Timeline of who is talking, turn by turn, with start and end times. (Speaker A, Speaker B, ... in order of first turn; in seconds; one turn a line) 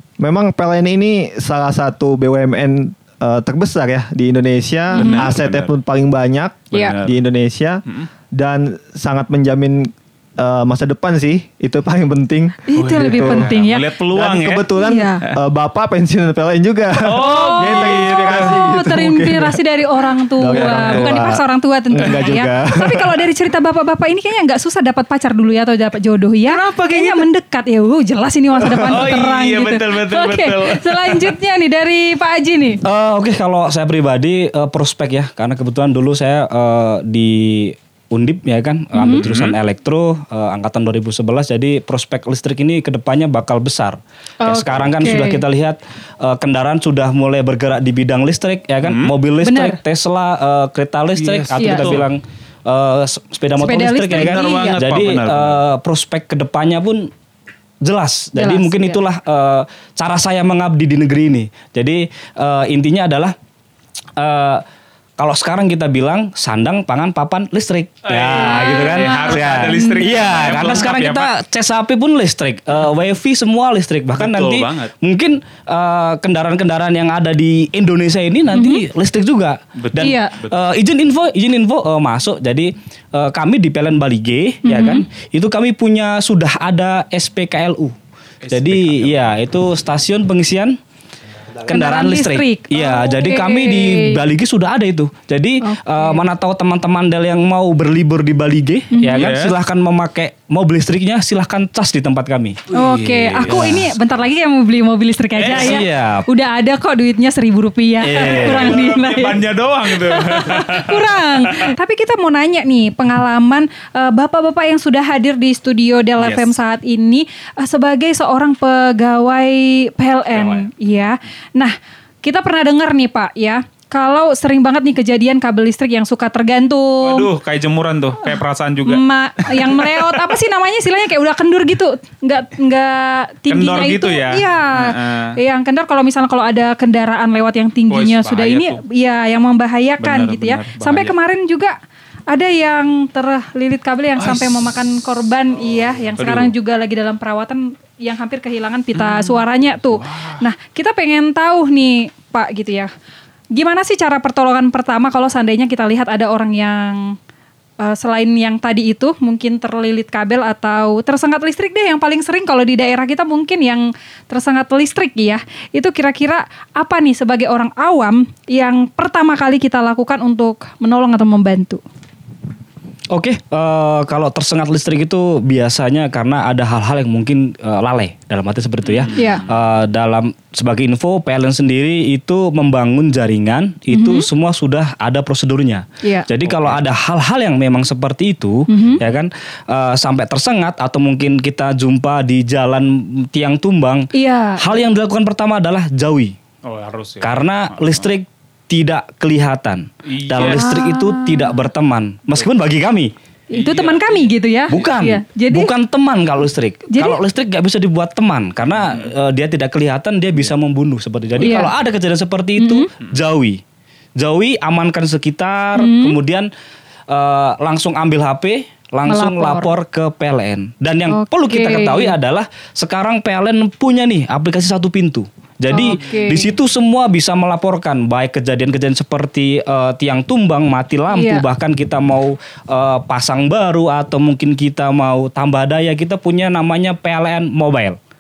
Speaker A: 0.2-13.5
Speaker B: 4.9-5.3
Speaker C: 5.0-5.7
Speaker B: 6.7-7.0
Speaker C: 6.7-7.2
Speaker B: 12.7-13.9
Speaker C: 12.8-14.7
Speaker A: 14.1-19.6
Speaker B: 14.8-15.2
Speaker C: 17.0-18.7
Speaker B: 17.1-32.8
Speaker A: 20.4-23.2
Speaker C: 20.5-21.1
Speaker C: 22.0-22.4
Speaker C: 26.4-27.3
Speaker C: 28.6-31.3
Speaker D: 32.8-57.1
Speaker B: 38.9-39.2
Speaker C: 39.2-39.6
Speaker B: 44.4-45.4
Speaker C: 48.8-49.1
Speaker B: 49.4-49.8
Speaker C: 51.2-52.1
Speaker B: 51.6-51.9
Speaker B: 53.6-54.8
Speaker C: 54.1-55.6
Speaker D: 57.8-63.4
Speaker B: 58.4-59.0
Speaker D: 64.2-64.6
Speaker D: 65.2-88.0
Speaker C: 68.0-71.3
Speaker B: 68.3-70.9
Speaker C: 74.2-74.9
Speaker B: 78.5-78.8
Speaker C: 79.8-80.7
Speaker B: 80.0-80.3
Speaker B: 84.7-85.1
Speaker C: 88.4-89.3
Speaker D: 88.5-90.8
Speaker D: 91.6-102.6
Speaker B: 91.7-94.2
Speaker B: 95.6-96.2
Speaker B: 98.9-99.3
Speaker C: 99.2-99.5
Speaker C: 102.7-103.8
Speaker B: 102.7-127.3
Speaker D: 103.4-103.9
Speaker C: 105.4-105.9
Speaker D: 105.5-106.3
Speaker D: 108.0-108.9
Speaker C: 108.1-111.7
Speaker C: 116.2-116.5
Speaker C: 120.3-120.7
Speaker C: 127.0-130.2
Speaker B: 128.8-141.8
Speaker C: 133.5-135.4
Speaker C: 137.9-138.8
Speaker C: 140.0-141.1
Speaker B: 142.3-152.9
Speaker C: 144.2-144.7
Speaker C: 146.2-146.5
Speaker C: 148.9-150.4
Speaker B: 153.5-157.2
Speaker B: 157.8-171.8
Speaker D: 173.1-196.4
Speaker C: 178.9-179.3
Speaker B: 179.2-179.4
Speaker B: 183.9-184.3
Speaker C: 186.4-186.8
Speaker B: 188.7-189.0
Speaker B: 194.1-194.8
Speaker C: 196.7-198.1
Speaker D: 197.2-203.1
Speaker C: 200.1-200.8
Speaker B: 200.4-201.6
Speaker B: 203.5-205.7
Speaker C: 203.5-204.9
Speaker D: 204.7-213.6
Speaker B: 206.9-207.2
Speaker C: 208.8-209.1
Speaker B: 211.4-211.7
Speaker B: 212.6-212.9
Speaker D: 214.2-216.5
Speaker B: 215.8-216.2
Speaker D: 217.1-238.0
Speaker B: 219.1-219.7
Speaker B: 221.1-222.2
Speaker B: 225.7-226.5
Speaker B: 231.1-231.4